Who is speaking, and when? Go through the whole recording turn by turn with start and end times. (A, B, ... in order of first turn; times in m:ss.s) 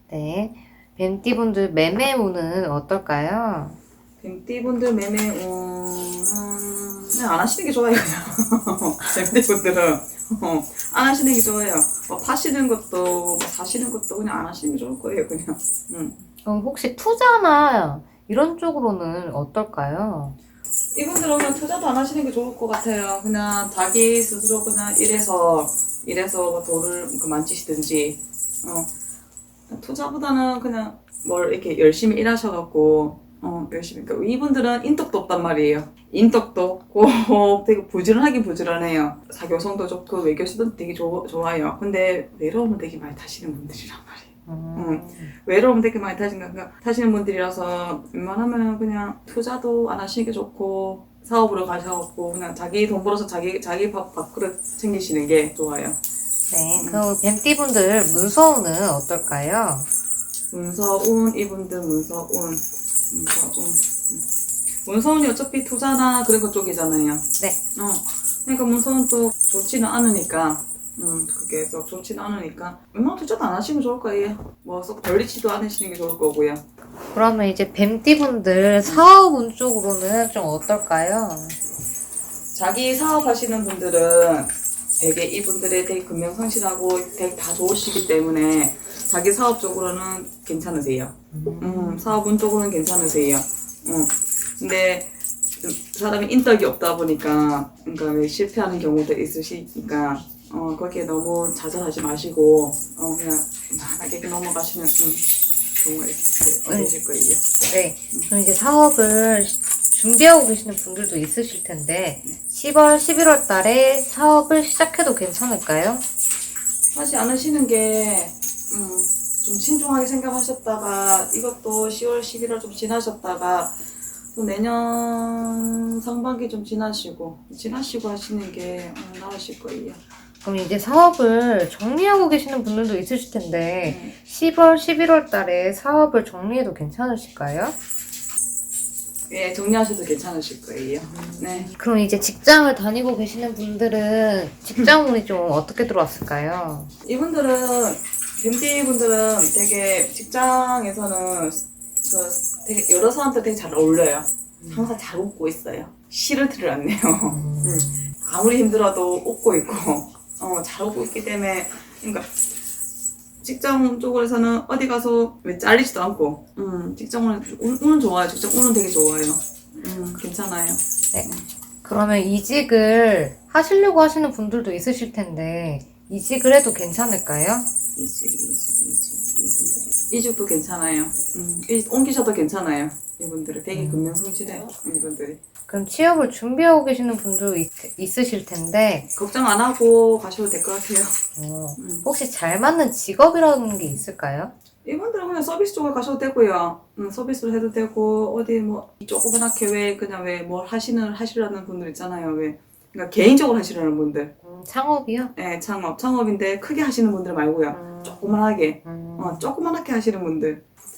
0:00.1-0:03.8 A
0:04.2-0:16.2 B
0:16.4-0:20.4 A
0:20.9-0:28.9 B
0:29.7-0:56.0 B
0:44.5-0:45.3 A
0:56.5-0:59.9 A
0:56.8-0:57.0 B
1:00.5-1:04.2 B
1:04.8-1:16.6 B
1:17.1-1:21.6 A
1:22.5-1:45.2 B
1:31.3-1:32.2 A
1:45.8-1:47.4 B
1:46.7-1:46.9 A
1:47.7-1:56.0 A
1:56.9-2:03.8 B
2:04.3-2:10.0 B
2:10.4-2:17.7 A
2:13.8-2:14.1 B
2:19.3-2:21.7 B
2:21.1-2:26.9 A
2:27.0-2:42.3 B
2:34.6-2:34.9 A
2:37.3-2:38.1 A
2:43.4-2:51.4 B
2:51.8-2:57.7 A
2:58.0-3:05.4 B
3:03.7-3:04.2 A
3:05.7-3:09.1 A
3:09.2-3:11.2 B
3:11.4-3:14.5 A
3:11.8-3:12.0 B
3:14.8-3:24.3 B
3:24.4-3:25.3 A
3:25.4-3:30.6 B
3:27.7-3:29.5 A